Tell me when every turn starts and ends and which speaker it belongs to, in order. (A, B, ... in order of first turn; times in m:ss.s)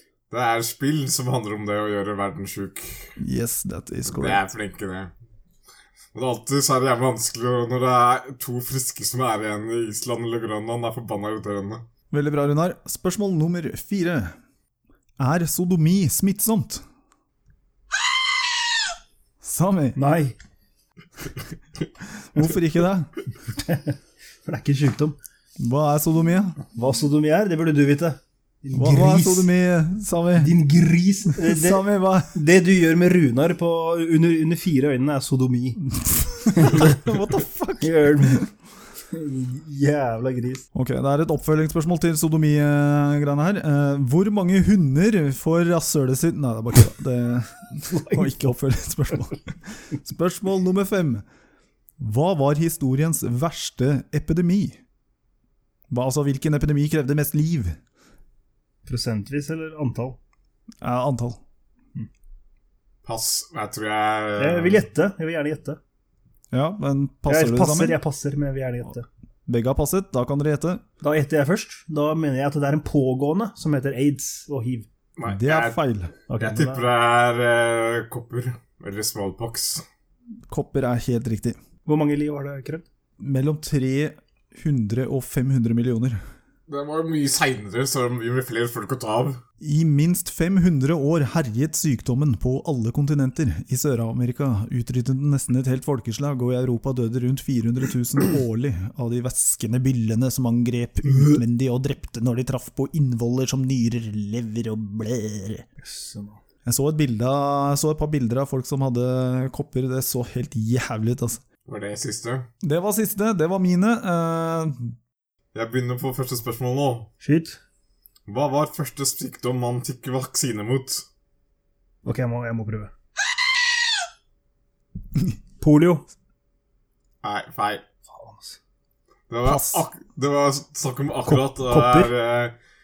0:00.3-0:03.2 A
0:03.2-0:04.4 B
0:04.1-0:05.1 A
0:06.1-0:11.8 A
0:12.1-0:14.4 B
0:15.2-0:16.8 B
0:19.4-0:20.0 B
0:20.0-0:20.4 C
0:22.2-0:23.1 B
0:23.4-0:25.2 C
0:25.6-0:26.6 B
0:26.7-0:29.5 C
0:28.7-0:30.5 B
0:30.4-0:35.8 C
0:31.4-0:32.3 B
0:36.0-0:38.4 B
0:36.5-0:37.1 C
0:37.8-0:38.5 C
0:39.1-0:40.7 C
0:40.7-0:51.2 B
0:47.8-0:48.5 C
0:52.0-0:54.8 B
0:55.9-0:57.8 B
0:58.9-1:00.2 C
1:00.8-1:01.4 B
1:03.0-1:04.8 A
1:04.4-1:05.8 C
1:06.5-1:08.0 B
1:07.3-1:09.1 C
1:09.5-1:10.8 B
1:11.0-1:14.9 C
1:15.2-1:15.8 A
1:15.2-1:16.1 B
1:16.3-1:16.8 C
1:16.4-1:19.8 A
1:20.5-1:21.6 B
1:21.9-1:22.9 C
1:23.2-1:26.2 B
1:26.7-1:29.4 A
1:29.6-1:45.6 B
1:45.8-1:46.4 C
1:46.6-1:51.4 B
1:51.6-1:52.5 A
1:52.6-1:54.9 B
1:55.5-1:57.1 A
1:57.2-1:57.6 C
1:58.3-2:01.0 A
2:02.0-2:02.9 C
2:05.6-2:06.0 C
2:07.2-2:07.8 A
2:08.0-2:08.6 C
2:09.3-2:12.6 A
2:09.4-2:09.8 B
2:11.2-2:12.1 C